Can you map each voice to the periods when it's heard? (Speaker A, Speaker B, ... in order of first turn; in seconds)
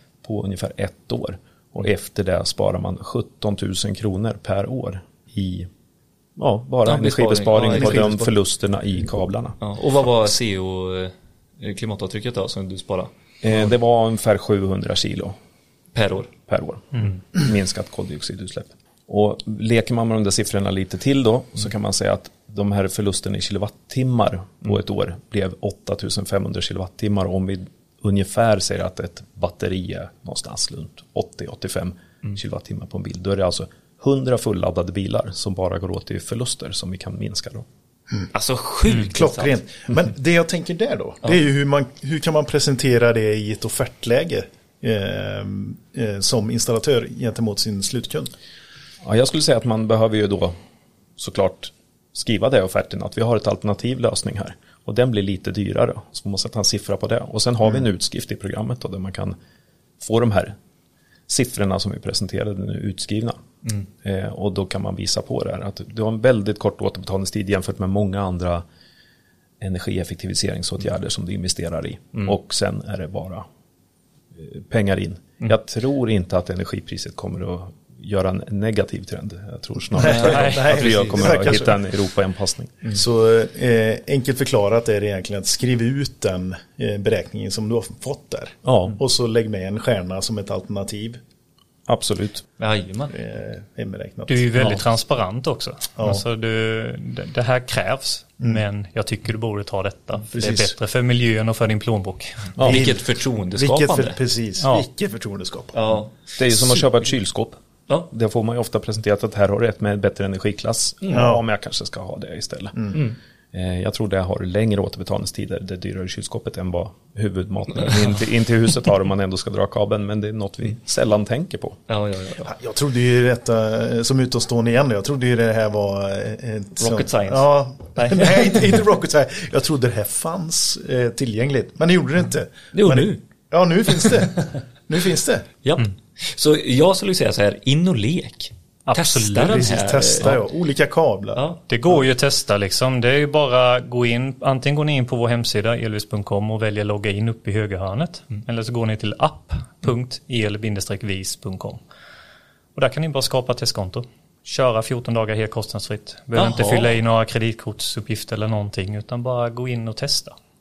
Speaker A: 0.2-5.7, 6.4-9.6, 13.4-15.4, 16.5-37.7, 49.0-50.5, 51.2-59.4, 60.0-60.6, 61.3-63.4, 64.0-68.6, 69.6-73.5, 74.3-82.9, 88.7-89.0, 91.9-92.5, 102.6-102.9, 106.4-113.0, 113.5-121.8
Speaker B: 6.8-8.3, 9.6-13.7, 15.9-16.3, 38.3-39.6, 80.0-81.7, 92.6-93.2, 102.6-104.2, 105.7-106.8, 121.9-122.5, 126.8-128.7, 132.7-133.2, 133.9-134.2, 135.6-140.4, 141.3-141.6, 156.4-156.9
Speaker C: 39.1-48.3, 80.0-81.7, 82.9-91.2, 93.1-94.8, 100.3-100.7, 102.7-103.0, 103.6-105.8, 111.1-111.4, 122.4-135.5, 139.5-141.4
Speaker D: 94.3-102.5, 104.6-104.8, 138.9-139.8, 141.7-151.8, 152.8-160.3